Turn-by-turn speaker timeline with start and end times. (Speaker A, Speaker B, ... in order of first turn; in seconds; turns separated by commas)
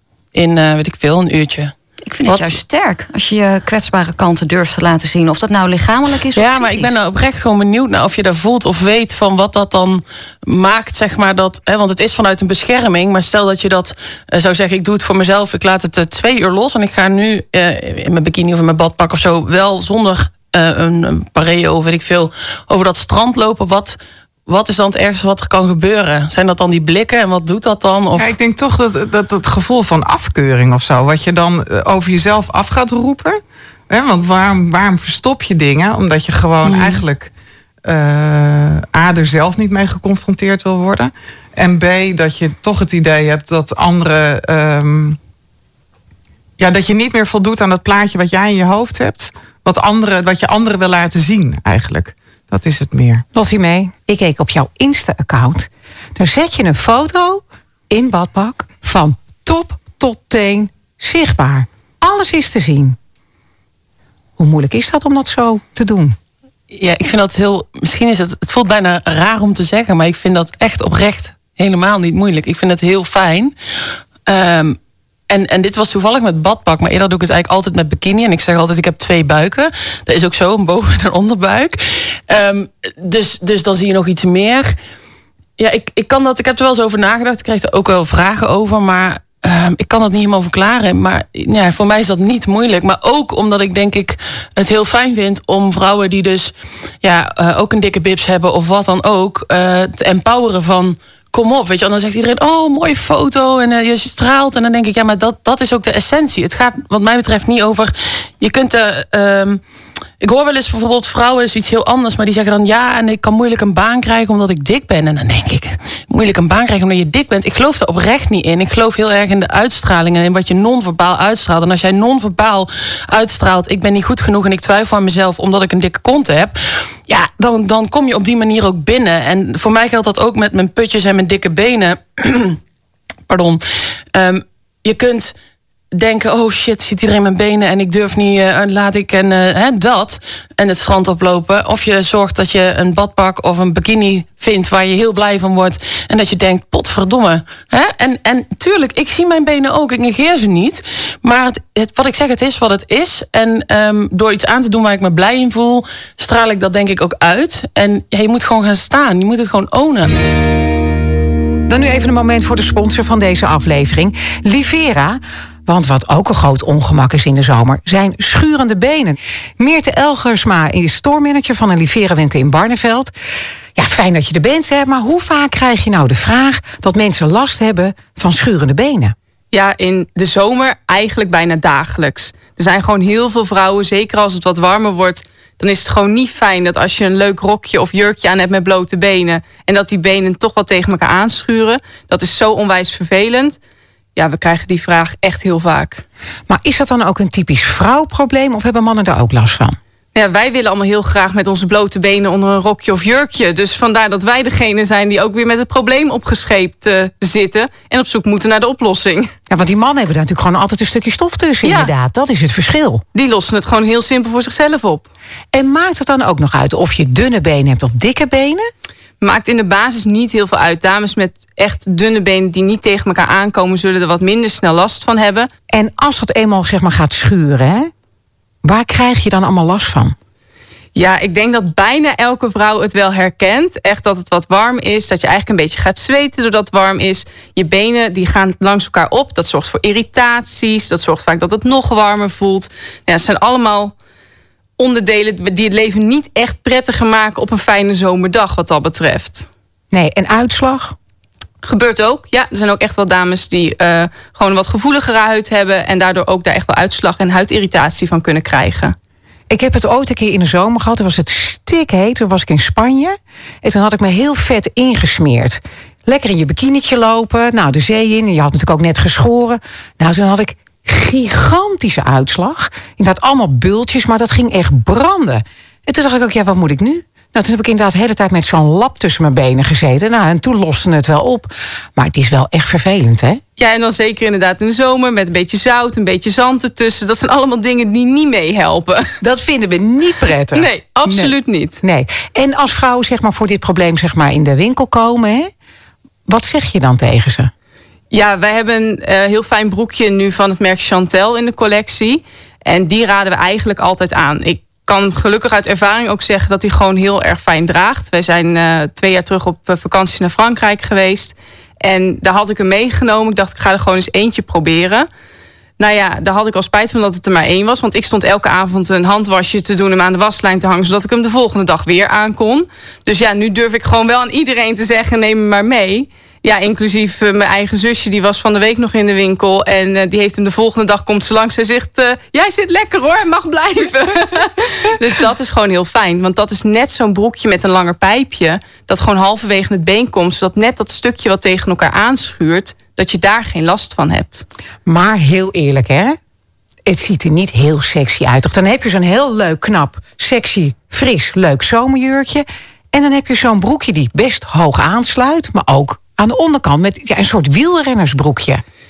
Speaker A: 0.3-1.7, Speaker B: 2.1-7.0, Speaker A: 2.2-2.6, Speaker A: 6.3-28.3, Speaker C: 28.1-33.4, Speaker C: 33.9-37.3, Speaker A: 36.6-37.0, Speaker C: 37.9-45.2, Speaker C: 46.6-53.2, Speaker D: 53.4-63.0, Speaker D: 64.4-66.2, Speaker A: 66.7-73.5, Speaker A: 74.3-74.8, Speaker A: 75.3-84.8, Speaker A: 85.6-109.6, Speaker A: 110.2-132.6, Speaker A: 133.3-135.3, Speaker A: 135.9-160.1, Speaker D: 161.7-173.1, Speaker D: 173.8-179.2, Speaker E: 179.5-193.6, Speaker E: 194.2-196.0, Speaker D: 196.5-199.8, Speaker E: 200.2-209.3, Speaker D: 209.5-213.0, Speaker E: 211.6-211.9, Speaker E: 213.2-215.1, Speaker D: 215.5-218.7, Speaker E: 219.2-225.5, Speaker D: 225.7-227.9, Speaker D: 228.6-230.2, Speaker E: 230.9-243.9, Speaker E: 244.8-249.5, Speaker D: 249.9-250.9, Speaker E: 251.6-258.9, Speaker D: 259.5-283.4, Speaker E: 283.6-289.1, Speaker D: 289.2-295.5, Speaker E: 290.5-291.8, Speaker D: 296.3-297.5, Speaker E: 298.1-315.1, Speaker E: 315.8-344.4, Speaker D: 344.9-346.2, Speaker D: 346.9-358.6